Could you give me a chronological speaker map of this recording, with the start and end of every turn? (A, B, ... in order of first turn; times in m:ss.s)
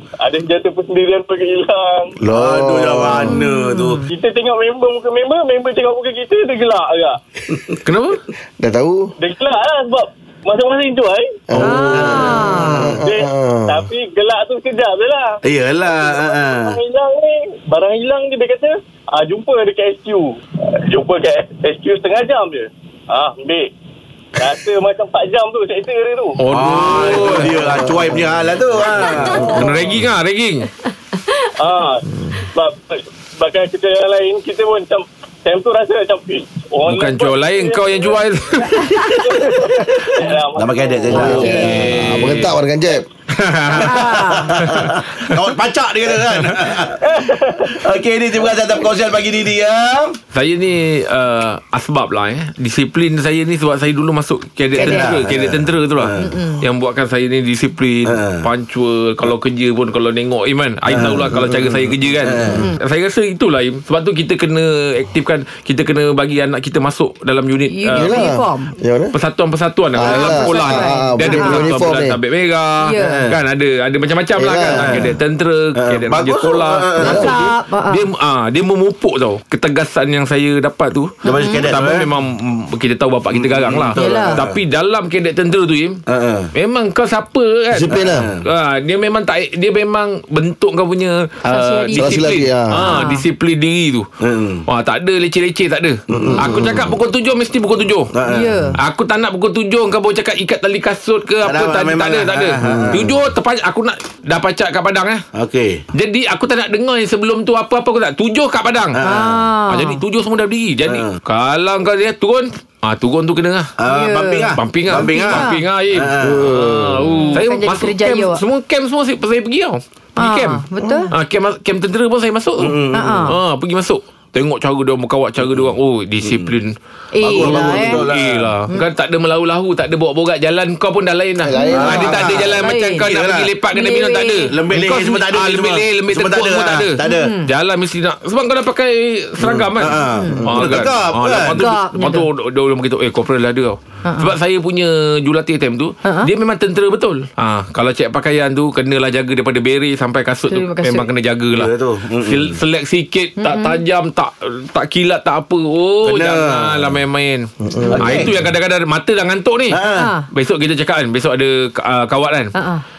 0:00.2-0:02.2 A
0:02.2-0:03.4 B
0:02.3-0:04.0 C
0:03.1-0:04.1 D
0:04.1-0:07.2 A
0:07.5-0:07.8 C
0:07.8-0:08.2 E
0:08.6-0:09.1 B
0:09.2-0:11.4 A
0:11.5-0:13.9 B
0:11.6-0:12.9 D
0:11.6-0:13.0 C
0:13.0-0:20.3 A
0:15.4-0:16.8 C
0:20.8-0:23.7 A
0:24.4-0:26.4 A
0:26.4-0:28.0 E
0:26.5-0:29.6 C
0:27.6-0:28.4 B
0:29.2-0:29.7 A
0:29.3-0:30.7 E
0:29.4-0:29.7 B
0:31.6-0:38.2 A
0:36.8-0:39.2 E
0:38.8-0:41.6 A
0:40.5-0:41.9 C
0:41.1-0:43.0 B
0:41.1-0:41.6 D
0:41.2-0:42.6 E
0:43.4-0:43.9 E
0:43.7-0:47.1 C
0:43.8-0:44.6 D
0:44.6-0:45.4 E
0:46.3-0:46.6 E
0:47.0-0:47.8 A
0:47.6-0:50.2 C
0:50.3-1:08.2 E
0:54.7-0:56.3 C
0:54.8-0:55.1 D
0:56.2-0:56.6 D
0:58.0-0:58.4 C
1:00.9-1:02.6 C
1:01.1-1:01.4 B
1:07.7-1:08.7 D
1:07.9-1:09.1 B
1:09.1-1:26.0 E
1:09.9-1:12.2 B
1:10.1-1:11.7 D
1:12.8-1:13.2 D
1:13.0-1:13.4 C
1:14.4-1:15.1 B
1:14.7-1:15.1 C
1:15.8-1:17.4 C
1:17.0-1:18.0 D
1:17.0-1:17.3 B
1:21.2-1:21.6 D
1:21.2-1:22.1 C
1:23.3-1:24.6 C
1:24.0-1:24.4 D
1:26.1-1:26.5 C
1:26.5-1:34.1 E
1:27.7-1:28.3 B
1:27.9-1:28.4 C
1:31.4-1:32.2 D
1:31.9-1:32.9 B
1:32.8-1:33.2 D
1:34.2-1:34.6 C
1:34.7-1:38.1 E
1:36.1-1:36.7 C
1:36.1-1:37.0 B
1:38.1-1:38.5 C
1:38.3-1:38.8 D
1:38.8-1:45.2 E
1:41.4-1:43.1 C
1:42.6-1:43.2 B
1:45.3-1:45.8 C
1:45.9-1:49.0 E
1:48.9-1:49.4 C
1:49.0-1:50.0 D
1:49.7-1:53.7 E
1:50.8-1:51.2 C
1:53.8-1:56.5 C
1:53.9-1:55.6 D
1:54.6-2:06.7 E
1:56.2-1:57.1 B
1:57.0-1:58.4 D
2:00.2-2:01.1 D
2:00.8-2:01.1 B
2:02.6-2:03.3 C
2:02.9-2:03.3 D
2:05.4-2:05.7 C
2:06.2-2:06.5 C
2:07.1-2:08.0 D
2:07.2-2:08.5 C
2:07.4-2:39.8 E
2:11.4-2:12.4 B
2:11.5-2:12.0 D
2:11.7-2:13.5 C
2:12.6-2:13.1 D
2:13.7-2:14.5 D
2:14.5-2:17.3 C
2:17.0-2:17.5 D
2:19.4-2:21.7 C
2:20.1-2:20.4 D
2:20.3-2:20.8 B
2:21.5-2:22.3 D
2:24.0-2:24.3 D
2:26.0-2:26.3 D
2:30.5-2:31.1 D
2:31.5-2:32.6 C
2:33.4-2:33.8 D
2:36.0-2:36.9 C
2:37.6-2:38.3 B
2:37.8-2:38.1 D
2:37.9-2:38.3 C
2:39.7-2:40.1 C
2:39.9-2:40.3 D
2:40.3-2:42.5 E
2:42.5-2:42.8 D